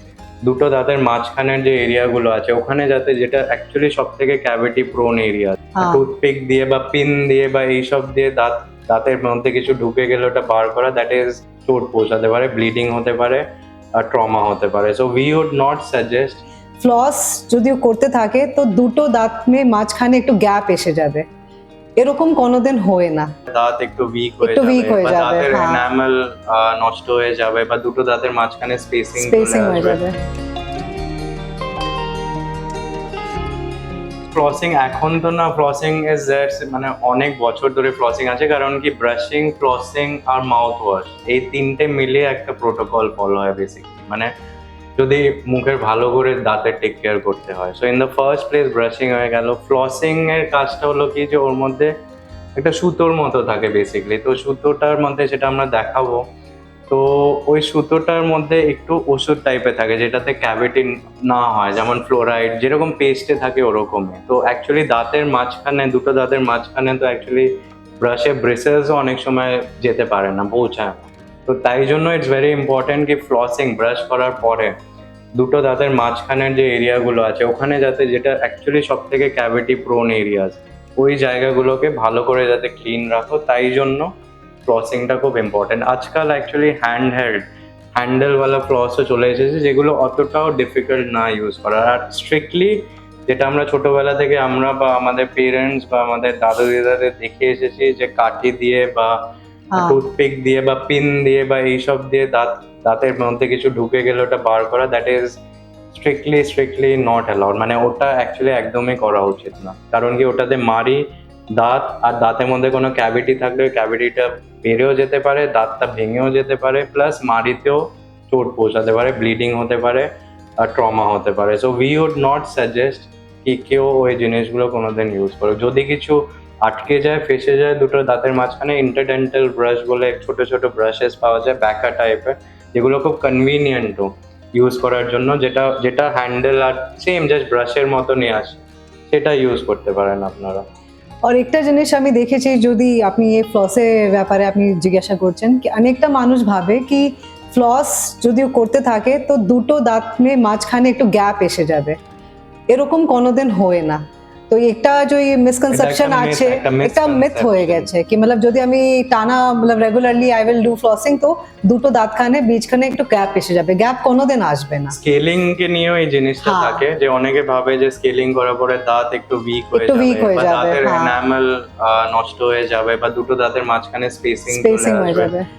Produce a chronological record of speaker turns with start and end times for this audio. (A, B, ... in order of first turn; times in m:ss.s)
0:00.4-0:16.4 A
0:05.8-0:06.0 B
0:16.8-0:21.3 B
0:22.0-0:23.3 B
0:23.5-0:30.0 A
0:24.4-0:25.8 B
0:29.2-0:30.2 B
0:34.3-0:44.3 A
0:45.0-0:51.9 A
0:52.6-0:56.2 A
0:56.9-1:14.8 A
1:15.4-1:24.1 A
1:24.7-1:39.2 A
1:39.7-1:40.0 B
1:39.8-1:45.4 A
1:45.9-2:20.6 A
2:21.2-2:32.0 B
2:32.7-2:45.0 B
2:35.7-2:37.9 A
2:44.9-2:55.3 A
2:46.4-2:46.8 B
2:49.7-2:51.2 B
2:54.5-2:55.5 B